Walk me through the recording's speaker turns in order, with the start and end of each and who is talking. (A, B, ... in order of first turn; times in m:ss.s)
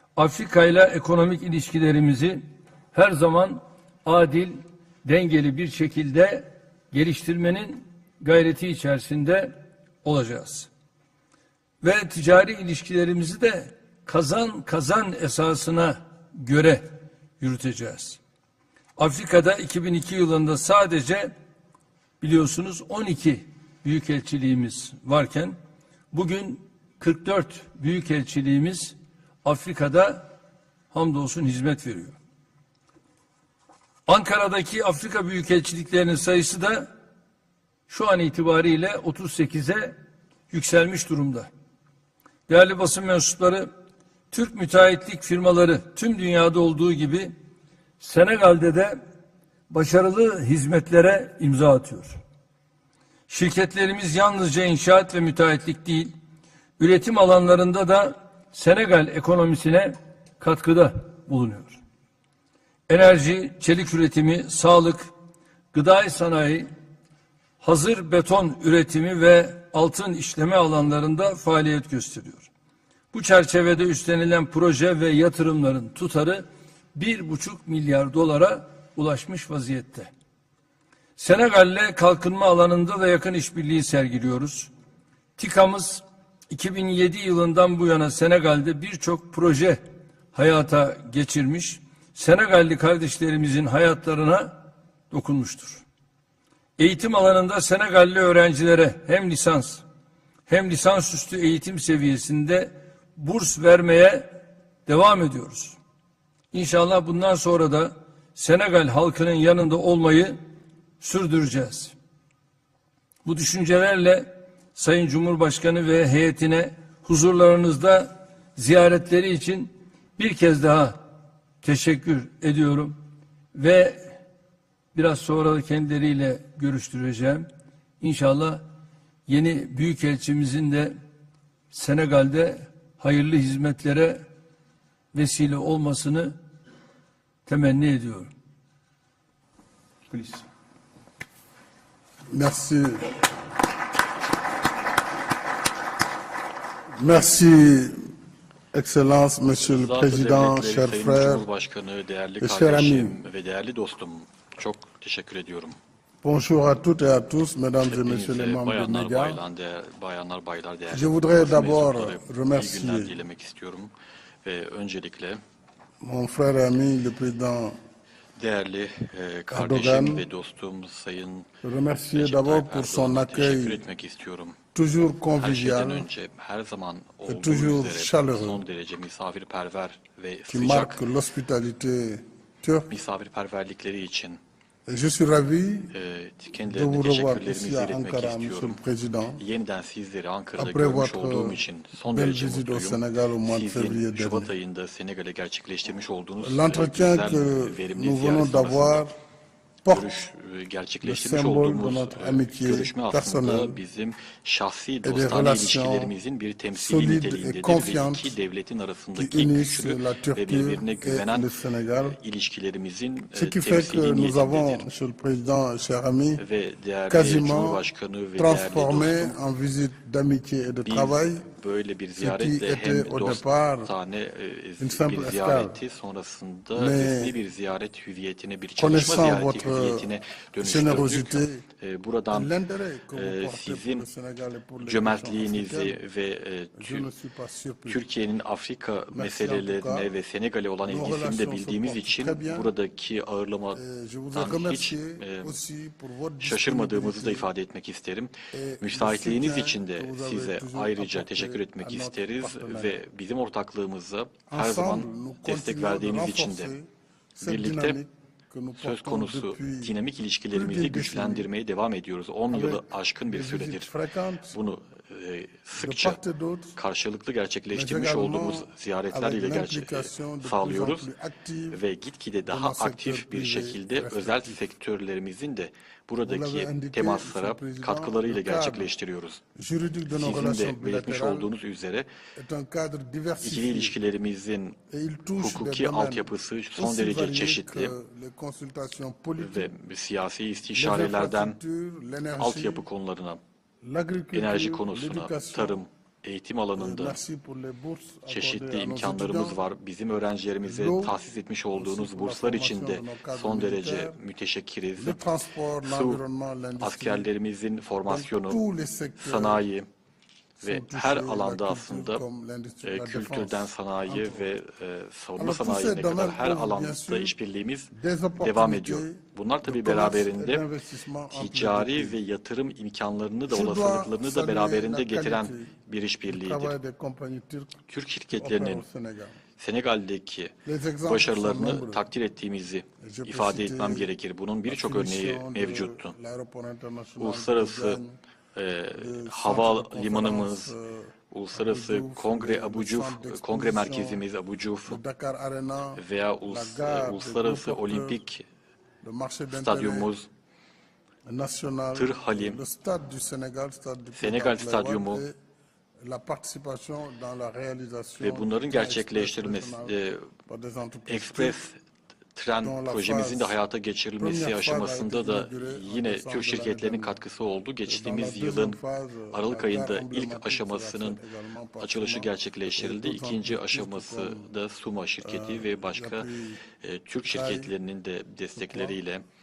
0:00.2-0:10.7 A
0:11.8-0:18.2 A
0:19.0-0:21.3 A
0:22.2-0:25.6 A
0:26.1-0:30.3 A
0:30.9-0:32.2 A
0:34.1-0:36.9 A
0:37.9-0:40.0 A
0:40.5-0:41.5 A
0:42.5-0:43.7 A
0:44.3-0:47.3 A
0:48.0-0:49.0 A
0:49.7-0:52.2 A
0:53.3-0:56.1 A
0:56.8-1:01.8 A
1:02.9-1:05.1 A
1:05.7-1:06.7 A
1:07.6-1:12.5 A
1:13.1-1:20.1 A
1:21.2-1:24.7 A
1:25.4-1:29.8 A
1:30.3-1:35.8 A
1:36.8-1:39.8 A
1:40.5-1:45.8 A
1:46.5-1:50.4 A
1:51.0-1:51.9 A
1:53.2-2:01.0 A
2:01.6-2:03.0 A
2:03.5-2:04.2 A
2:04.9-2:07.5 A
2:08.0-2:08.6 A
2:09.3-2:11.0 A
2:11.7-2:14.2 A
2:15.1-2:16.4 A
2:17.4-2:18.3 A
2:20.1-2:20.4 A
2:22.3-2:23.2 B
2:27.0-2:28.1 B
2:28.7-2:31.4 B
2:29.6-2:35.8 C
2:32.4-2:33.2 B
2:36.2-2:39.4 B
2:37.8-2:43.9 C
2:40.9-2:43.1 B
2:44.4-2:45.4 C
2:46.0-2:47.8 B
2:48.4-2:51.5 C
2:49.5-2:50.2 B
2:51.6-2:53.8 B
2:52.1-2:54.6 C
2:54.7-2:56.1 B
2:55.4-3:01.0 C
2:57.3-2:58.6 B
3:00.5-3:02.9 B
3:02.9-3:04.4 C
3:04.8-3:05.9 B
3:05.9-3:08.8 C
3:06.6-3:09.4 B
3:09.4-3:19.0 C
3:10.6-3:14.5 B
3:16.4-3:19.1 B
3:19.8-3:20.1 B
3:19.9-3:34.9 C
3:21.0-3:23.8 B
3:25.0-3:26.1 B
3:26.7-3:28.3 B
3:29.2-3:32.2 B
3:33.3-3:36.4 B
3:36.4-3:39.4 C
3:37.1-3:37.8 B
3:38.4-3:41.4 B
3:40.8-3:52.5 C
3:42.2-3:43.9 B
3:44.8-3:45.8 B
3:46.7-3:47.3 B
3:48.8-3:50.1 B
3:50.6-3:51.6 B
3:52.3-3:56.0 B
3:53.1-3:54.0 C
3:54.8-3:57.1 C
3:56.8-3:58.0 B
3:57.9-4:03.8 C
3:59.1-4:00.1 B
4:00.8-4:02.7 B
4:03.7-4:07.5 B
4:04.3-4:05.6 C
4:06.4-4:16.7 C
4:08.5-4:13.0 B
4:14.5-4:19.9 B
4:17.4-4:18.0 C
4:18.8-4:23.9 C
4:20.5-4:21.5 B
4:22.5-4:24.6 B
4:24.5-4:26.2 C
4:25.8-4:26.7 B
4:26.8-4:31.1 C
4:27.7-4:31.8 B
4:31.7-4:39.4 C
4:32.5-4:34.6 B
4:36.2-4:38.9 B
4:39.5-4:41.5 B
4:40.1-4:42.1 C
4:42.4-4:44.0 B
4:43.4-4:44.8 C
4:44.9-4:49.7 B
4:45.4-4:47.9 C
4:49.4-4:51.6 C
4:50.7-4:52.8 B
4:52.4-4:53.4 C
4:53.8-4:55.8 B
4:54.3-4:57.2 C
4:56.8-4:59.6 B
4:58.3-5:05.2 C
5:00.6-5:01.2 B
5:01.8-5:04.2 B
5:05.0-5:07.3 B
5:05.8-5:06.2 C
5:06.8-5:08.6 C
5:08.1-5:09.6 B
5:09.2-5:09.9 C
5:10.6-5:14.5 B
5:10.6-5:12.2 C
5:12.8-5:20.6 C
5:15.4-5:17.3 B
5:17.9-5:22.2 B
5:21.3-5:26.8 C
5:23.5-5:25.8 B
5:26.3-5:29.4 B
5:27.9-5:28.8 C
5:29.6-5:36.1 C
5:30.6-5:32.0 B
5:33.0-5:34.1 B
5:34.7-5:38.2 B
5:37.2-5:38.0 C
5:38.5-5:40.7 C
5:38.9-5:44.2 B
5:41.3-5:45.0 C
5:44.9-5:48.2 B
5:46.0-5:48.4 C
5:49.0-5:50.1 B
5:49.5-5:50.3 C
5:51.3-5:55.3 B
5:51.9-5:52.6 C
5:54.1-5:55.2 C
5:56.0-5:59.9 B
5:58.2-6:00.3 C
6:00.5-6:01.6 B
6:01.1-6:01.8 C
6:02.3-6:08.8 C
6:02.6-6:03.6 B
6:04.2-6:07.2 B
6:07.8-6:14.5 B
6:09.3-6:11.2 C
6:11.8-6:16.3 C
6:15.2-6:16.6 B
6:16.8-6:19.2 C
6:17.3-6:17.7 B
6:18.6-6:19.0 B